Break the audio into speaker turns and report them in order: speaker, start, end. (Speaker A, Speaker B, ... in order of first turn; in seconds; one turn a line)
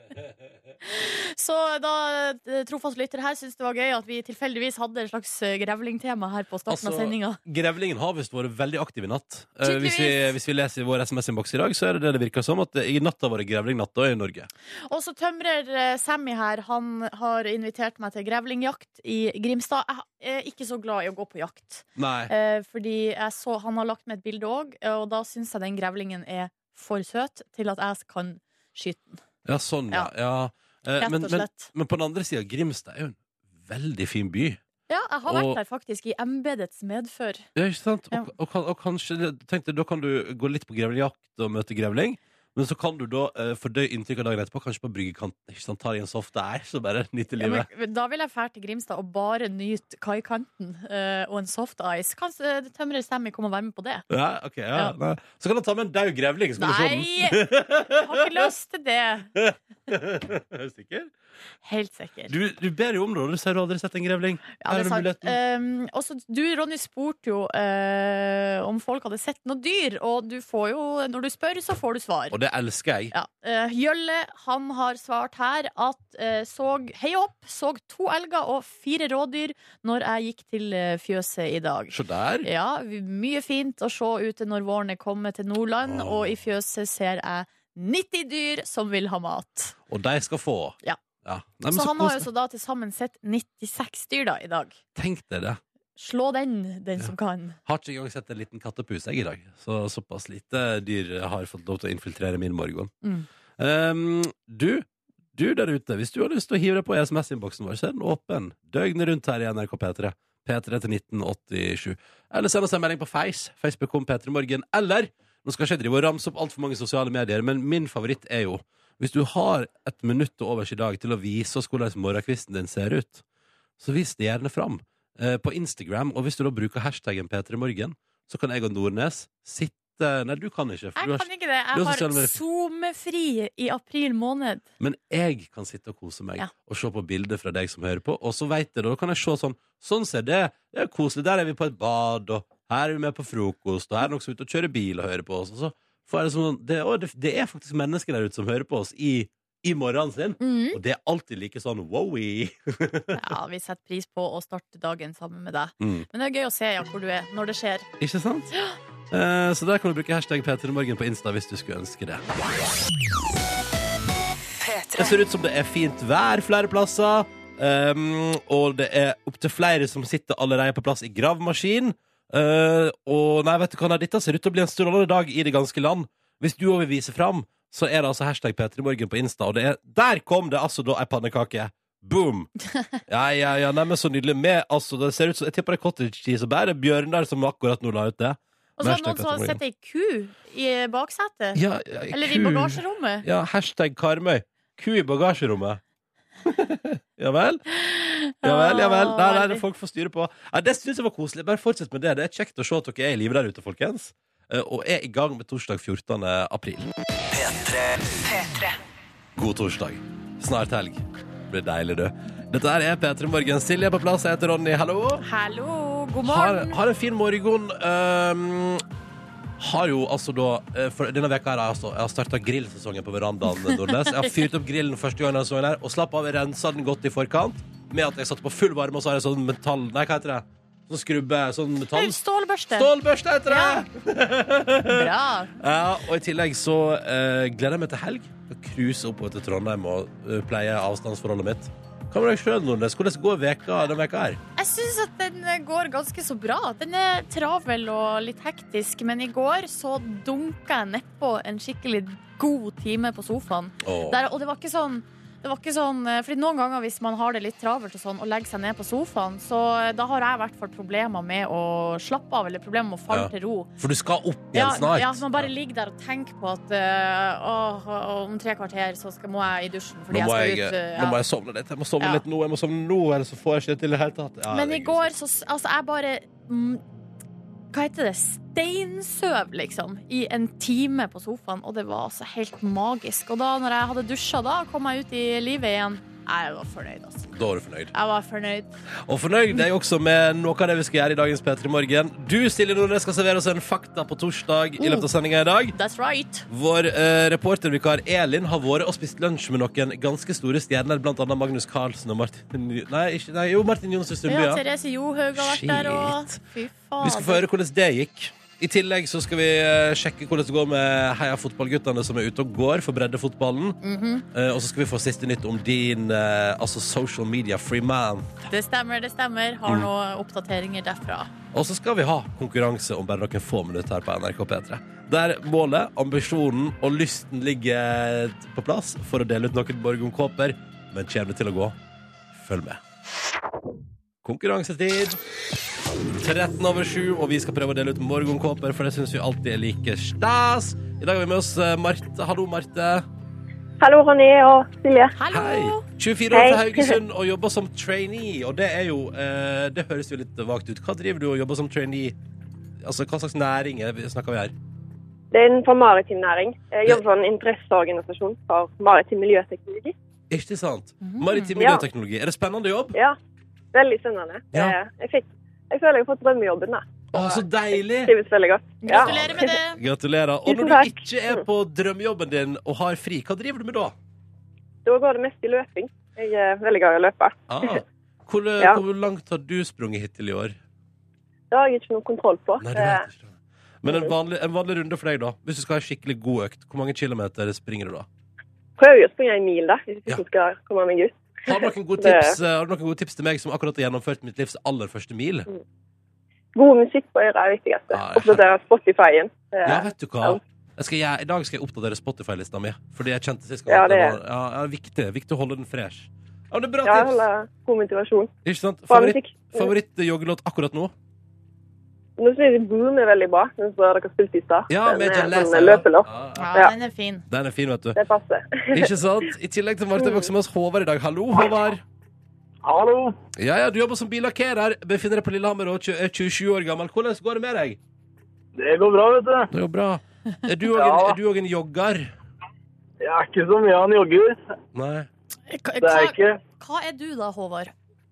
Speaker A: 0.8-7.4
Speaker B: 6.7-14.5
Speaker A: 9.6-10.3
Speaker A: 14.9-29.2
Speaker B: 22.0-22.3
Speaker B: 29.4-34.6
Speaker A: 31.0-31.7
Speaker A: 34.9-37.5
Speaker B: 35.3-35.6
Speaker B: 37.6-47.7
Speaker A: 47.4-54.1
Speaker B: 54.1-58.5
Speaker A: 56.6-59.3
Speaker B: 59.4-61.1
Speaker A: 61.6-62.3
Speaker B: 62.3-65.4
Speaker A: 64.6-72.3
Speaker B: 72.3-73.1
Speaker A: 73.1-89.8
Speaker B: 81.9-82.5
Speaker B: 85.8-86.3
Speaker B: 89.9-92.3
Speaker A: 91.7-94.8
Speaker B: 95.0-95.6
Speaker A: 96.0-97.6
Speaker B: 97.7-102.9
Speaker B: 103.6-123.2
Speaker B: 123.8-132.3
Speaker A: 131.0-134.6
Speaker B: 134.8-153.2
Speaker A: 150.4-150.8
Speaker A: 153.2-157.9
Speaker B: 155.8-156.1
Speaker B: 158.0-158.5
Speaker B: 159.1-162.2
Speaker B: 165.0-182.5
Speaker B: 183.1-189.6
Speaker A: 188.8-191.6
Speaker B: 191.6-195.8
Speaker A: 192.1-193.2
Speaker B: 196.4-197.7
Speaker A: 197.7-199.6
Speaker B: 198.4-206.9
Speaker B: 209.4-215.2
Speaker A: 215.2-216.8
Speaker B: 216.3-218.8
Speaker B: 219.6-232.2
Speaker A: 223.6-224.3
Speaker A: 231.9-232.9
Speaker B: 232.7-244.4
Speaker A: 233.5-233.8
Speaker A: 234.9-235.5
Speaker A: 244.6-263.7
Speaker B: 253.8-254.2
Speaker B: 263.1-265.5
Speaker A: 264.5-271.2
Speaker B: 270.1-275.1
Speaker A: 274.5-276.8
Speaker A: 277.7-287.3
Speaker B: 287.3-287.9
Speaker A: 287.9-288.7
Speaker B: 289.1-295.8
Speaker A: 294.8-295.1
Speaker A: 295.7-296.5
Speaker B: 296.5-304.6
Speaker A: 304.3-307.4
Speaker B: 305.4-306.4
Speaker B: 307.0-313.8
Speaker A: 313.8-314.2
Speaker B: 314.3-318.4
Speaker A: 318.5-321.3
Speaker B: 321.5-331.8
Speaker B: 332.3-332.8
Speaker B: 334.2-335.2
Speaker B: 336.1-343.1
Speaker C: 343.8-345.1
Speaker A: 345.2-345.8
Speaker B: 345.3-352.2
Speaker C: 346.3-346.9
Speaker B: 352.8-354.5
Speaker C: 355.3-359.9
Speaker B: 360.3-363.0
Speaker A: 361.0-361.5
Speaker C: 361.6-361.8
Speaker C: 363.7-367.4
Speaker B: 367.1-368.1
Speaker C: 368.0-369.5
Speaker A: 368.8-369.8
Speaker B: 369.0-373.9
Speaker C: 370.5-371.4
Speaker C: 374.9-377.8
Speaker B: 377.5-380.6
Speaker C: 381.5-383.1
Speaker B: 382.6-388.1
Speaker C: 383.9-384.1
Speaker C: 388.8-392.4
Speaker B: 391.5-395.5
Speaker C: 396.6-400.4
Speaker B: 397.9-398.5
Speaker B: 399.6-407.2
Speaker C: 403.7-404.2
Speaker C: 406.8-408.3
Speaker B: 408.4-410.9
Speaker C: 408.9-409.7
Speaker C: 412.2-416.7
Speaker B: 414.7-416.4
Speaker A: 416.4-417.3
Speaker B: 417.3-418.0
Speaker C: 418.0-418.9
Speaker B: 418.7-421.8
Speaker D: 422.6-423.1
Speaker B: 423.4-427.8
Speaker D: 428.6-429.5
Speaker B: 429.5-432.1
Speaker D: 430.7-431.2
Speaker D: 433.0-434.4
Speaker B: 434.7-435.1
Speaker A: 435.5-437.7
Speaker D: 435.8-436.4